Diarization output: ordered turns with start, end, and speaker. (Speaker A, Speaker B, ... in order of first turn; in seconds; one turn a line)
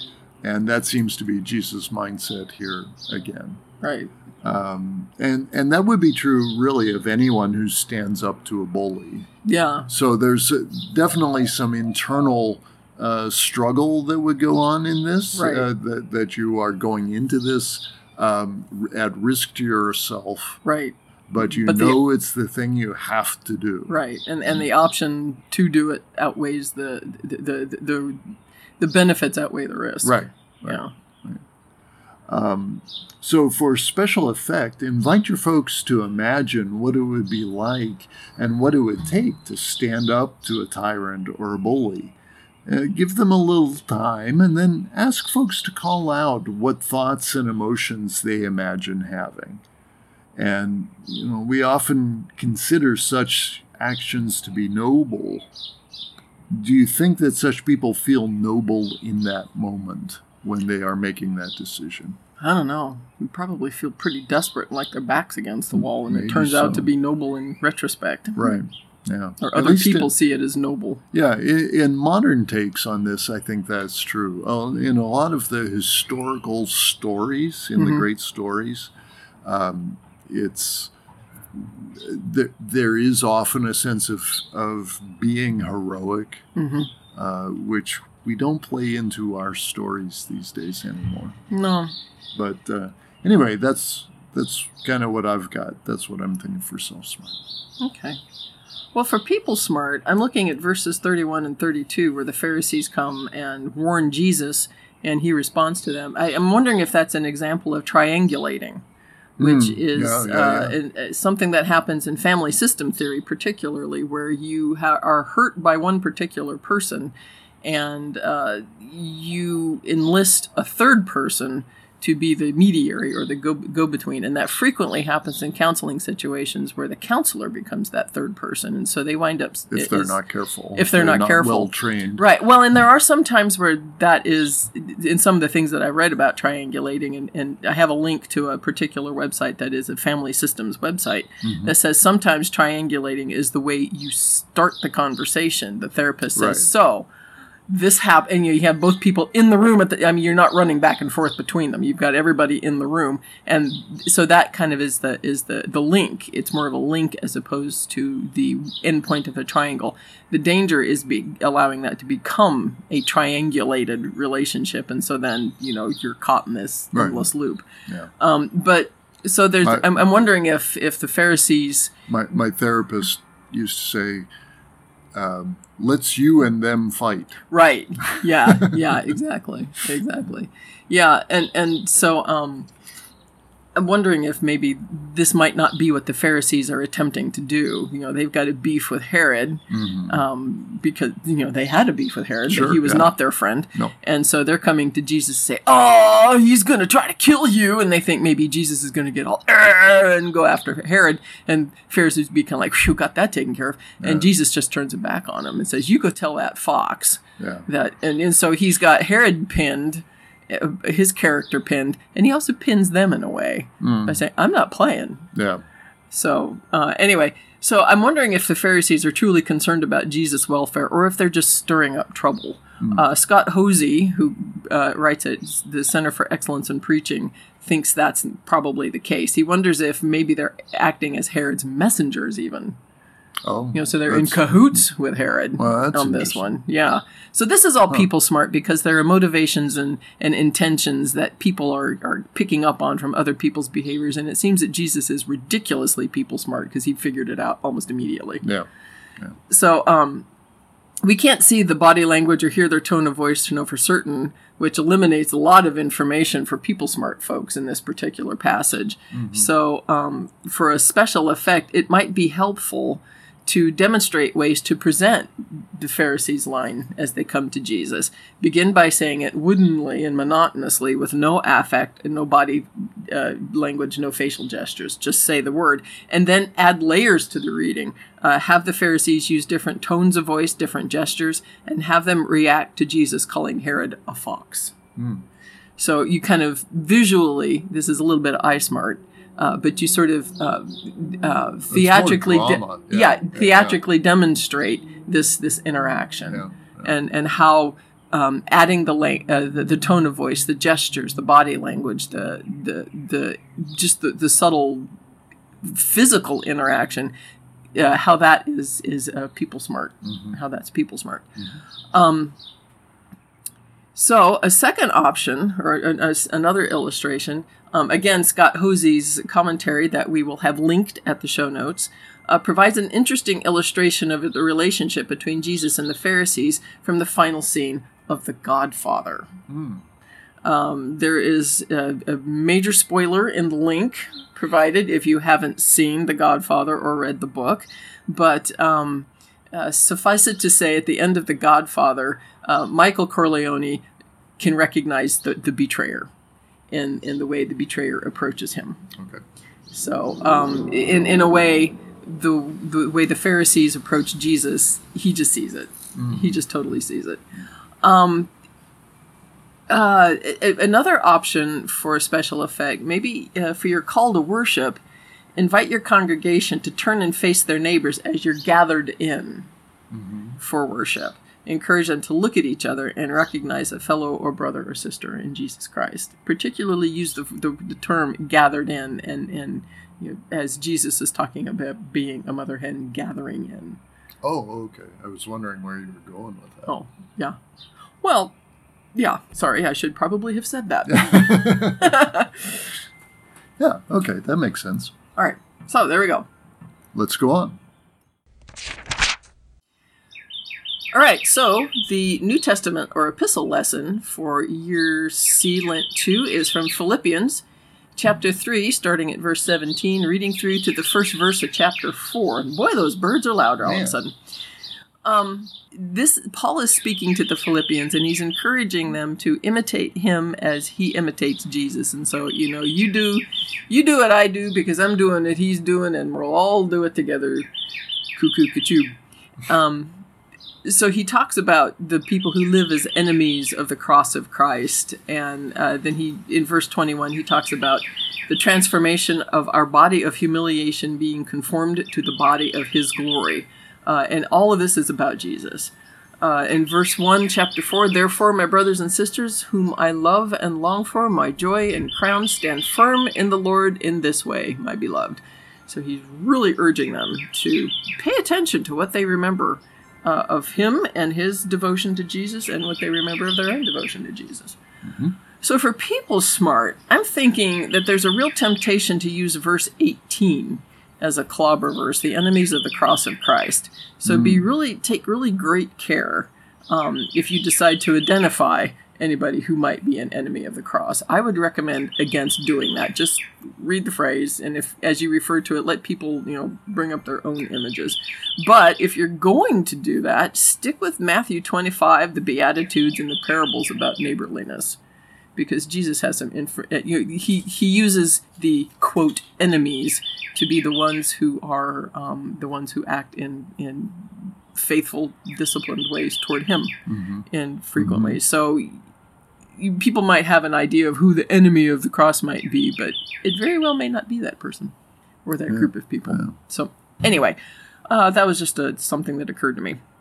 Speaker A: 0.4-3.6
Speaker B: 3.8-4.1
Speaker A: 4.4-9.3
Speaker B: 9.4-9.9
Speaker A: 9.9-20.6
Speaker B: 15.3-15.6
Speaker B: 20.6-22.0
Speaker A: 21.3-23.9
Speaker B: 23.9-30.9
Speaker A: 30.0-31.4
Speaker A: 32.3-49.6
Speaker A: 50.4-55.5
Speaker A: 56.5-62.2
Speaker B: 62.4-68.5
Speaker A: 65.7-66.9
Speaker A: 68.3-70.1
Speaker B: 69.4-71.0
Speaker A: 71.1-78.9
Speaker B: 77.8-78.0
Speaker A: 79.4-80.9
Speaker A: 81.5-86.5
Speaker B: 86.5-86.9
Speaker A: 87.1-91.4
Speaker B: 91.5-91.9
Speaker A: 92.3-97.4
Speaker B: 97.8-98.2
Speaker B: 98.9-108.8
Speaker A: 109.4-110.8
Speaker B: 109.4-130.2
Speaker A: 129.7-132.2
Speaker B: 130.7-147.1
Speaker A: 141.4-141.7
Speaker A: 146.3-146.7
Speaker B: 147.7-167.6
Speaker A: 166.9-167.3
Speaker B: 168.2-171.9
Speaker A: 169.6-170.0
Speaker A: 172.1-174.3
Speaker A: 175.1-177.4
Speaker B: 177.5-182.7
Speaker A: 178.1-178.7
Speaker B: 183.7-215.3
Speaker A: 189.7-190.2
Speaker A: 192.5-193.1
Speaker A: 204.0-204.3
Speaker A: 207.4-207.7
Speaker A: 213.8-214.2
Speaker A: 215.3-215.6
Speaker B: 216.1-232.8
Speaker A: 222.8-223.1
Speaker A: 233.4-234.8
Speaker B: 233.7-248.4
Speaker A: 235.6-236.4
Speaker B: 249.5-250.3
Speaker B: 251.0-284.7
Speaker A: 259.1-259.5
Speaker A: 284.9-285.2
Speaker B: 285.8-304.9
Speaker A: 291.7-293.8
Speaker A: 296.3-296.9
Speaker B: 305.6-307.1
Speaker B: 307.7-311.2
Speaker A: 310.0-310.4
Speaker B: 311.9-312.4
Speaker B: 313.9-329.3
Speaker A: 329.5-329.8
Speaker B: 330.4-343.8
Speaker B: 344.4-346.1
Speaker B: 346.7-348.9
Speaker A: 348.9-349.2
Speaker B: 349.7-357.2
Speaker A: 355.9-356.4
Speaker B: 357.8-358.3
Speaker B: 359.7-364.8
Speaker B: 365.4-369.5
Speaker A: 369.9-370.4
Speaker B: 370.4-383.8
Speaker A: 384.2-386.8
Speaker B: 386.7-387.4
Speaker B: 388.0-388.4
Speaker B: 388.9-392.4
Speaker A: 390.9-392.1
Speaker A: 393.6-394.9
Speaker B: 395.1-396.3
Speaker A: 396.9-397.6
Speaker B: 400.9-407.4
Speaker B: 407.9-414.1
Speaker A: 413.6-414.0
Speaker B: 415.0-427.5
Speaker B: 428.1-428.9
Speaker B: 429.5-430.0
Speaker B: 430.6-464.6
Speaker A: 464.8-465.1
Speaker B: 465.4-494.8
Speaker A: 474.1-474.4
Speaker B: 495.4-506.8
Speaker A: 506.9-508.2
Speaker B: 507.3-508.8
Speaker B: 509.6-514.7
Speaker B: 515.2-519.8
Speaker A: 515.5-516.3